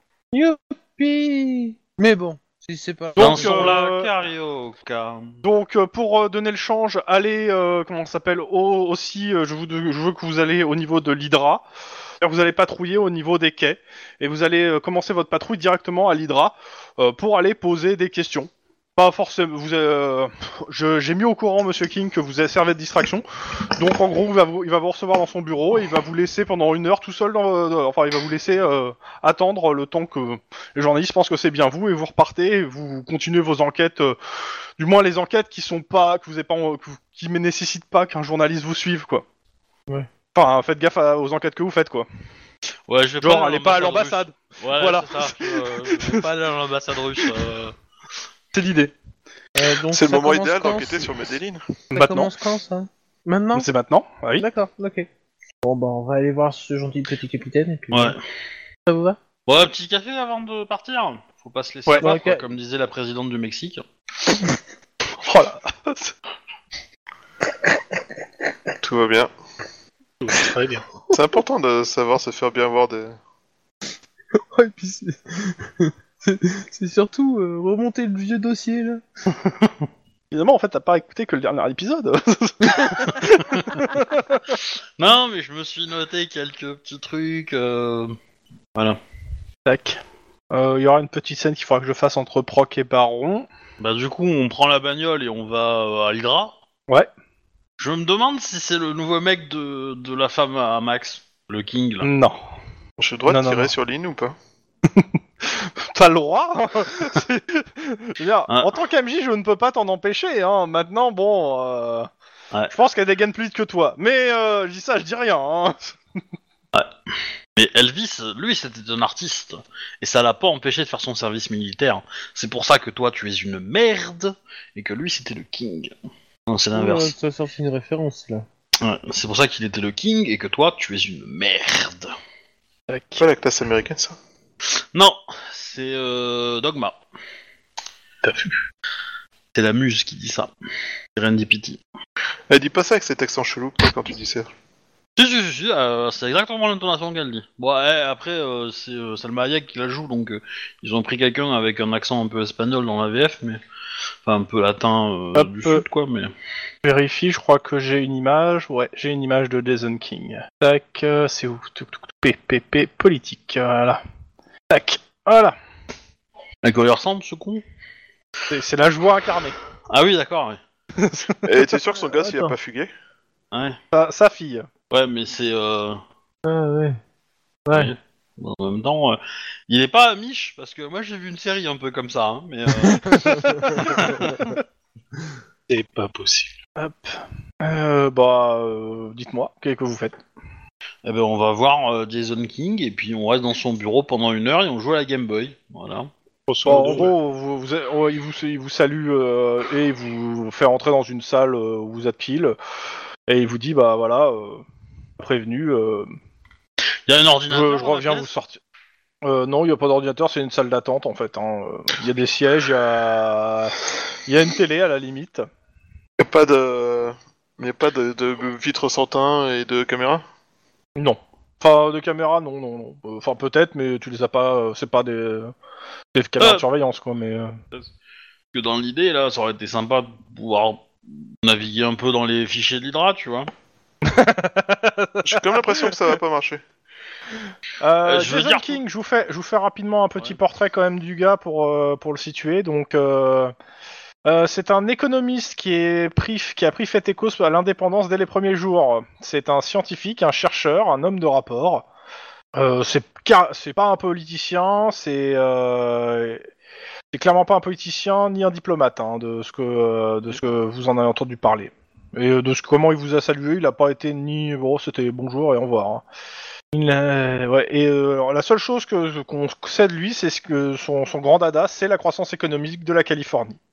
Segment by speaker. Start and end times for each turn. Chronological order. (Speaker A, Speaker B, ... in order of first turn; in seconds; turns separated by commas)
Speaker A: 0.3-3.9, Speaker B: 3.1-4.1, Speaker C: 3.2-5.4, Speaker B: 5.4-11.7, Speaker B: 12.2-34.2, Speaker B: 34.8-39.2, Speaker B: 40.3-42.1, Speaker C: 42.9-47.8, Speaker B: 43.2-46.2, Speaker B: 48.5-48.9, Speaker A: 49.6-51.1, Speaker D: 49.9-51.6, Speaker B: 51.9-52.3, Speaker A: 51.9-53.7, Speaker B: 53.5-54.5, Speaker A: 54.4-55.1, Speaker A: 55.6-58.2, Speaker C: 57.9-58.2, Speaker A: 58.9-59.2, Speaker C: 59.5-63.8, Speaker A: 62.0-62.5, Speaker B: 65.2-66.1, Speaker D: 68.8-69.3, Speaker E: 70.2-70.9, Speaker D: 71.1-73.2, Speaker A: 74.5-79.0, Speaker B: 80.3-84.4, Speaker C: 85.0-88.2, Speaker C: 88.8-89.0, Speaker B: 89.7-90.0, Speaker B: 90.5-93.5, Speaker C: 93.8-96.5, Speaker C: 97.8-102.1, Speaker B: 102.0-102.4, Speaker D: 103.0-104.4, Speaker B: 103.3-103.7, Speaker B: 104.9-112.1, Speaker B: 112.7-116.0, Speaker C: 117.6-125.9, Speaker C: 126.5-127.1, Speaker A: 126.7-128.5, Speaker C: 128.8-132.1, Speaker B: 132.9-133.2, Speaker D: 133.2-134.2, Speaker C: 134.9-137.0, Speaker E: 138.2-138.6, Speaker C: 139.5-140.5, Speaker C: 141.2-141.8, Speaker D: 142.5-144.5, Speaker C: 145.2-153.6, Speaker C: 154.2-156.3, Speaker B: 155.3-155.8, Speaker B: 156.8-164.0, Speaker B: 164.7-165.6, Speaker C: 166.6-167.6, Speaker B: 168.5-169.6, Speaker C: 169.9-170.6, Speaker B: 171.0-171.7, Speaker D: 171.5-172.9, Speaker C: 173.5-173.8, Speaker B: 173.9-174.7, Speaker C: 174.9-176.0, Speaker A: 176.4-177.0, Speaker A: 177.7-177.9, Speaker C: 177.7-184.3, Speaker A: 183.1-183.8, Speaker B: 183.1-184.5, Speaker E: 185.7-186.6, Speaker B: 186.8-190.2, Speaker C: 191.0-196.1, Speaker E: 196.5-197.1, Speaker B: 196.7-202.6, Speaker B: 203.3-204.6, Speaker B: 205.2-206.1, Speaker C: 207.1-208.3, Speaker B: 207.5-208.6, Speaker B: 209.2-215.4, Speaker D: 216.2-220.2, Speaker B: 221.0-225.5, Speaker B: 226.2-227.6, Speaker C: 226.4-226.6, Speaker C: 228.5-230.9, Speaker C: 231.4-233.5, Speaker B: 234.1-235.4, Speaker D: 235.2-236.6, Speaker B: 237.8-243.5, Speaker C: 238.1-238.8, Speaker B: 244.2-251.9, Speaker B: 252.6-256.4, Speaker B: 257.1-266.0, Speaker B: 266.7-273.6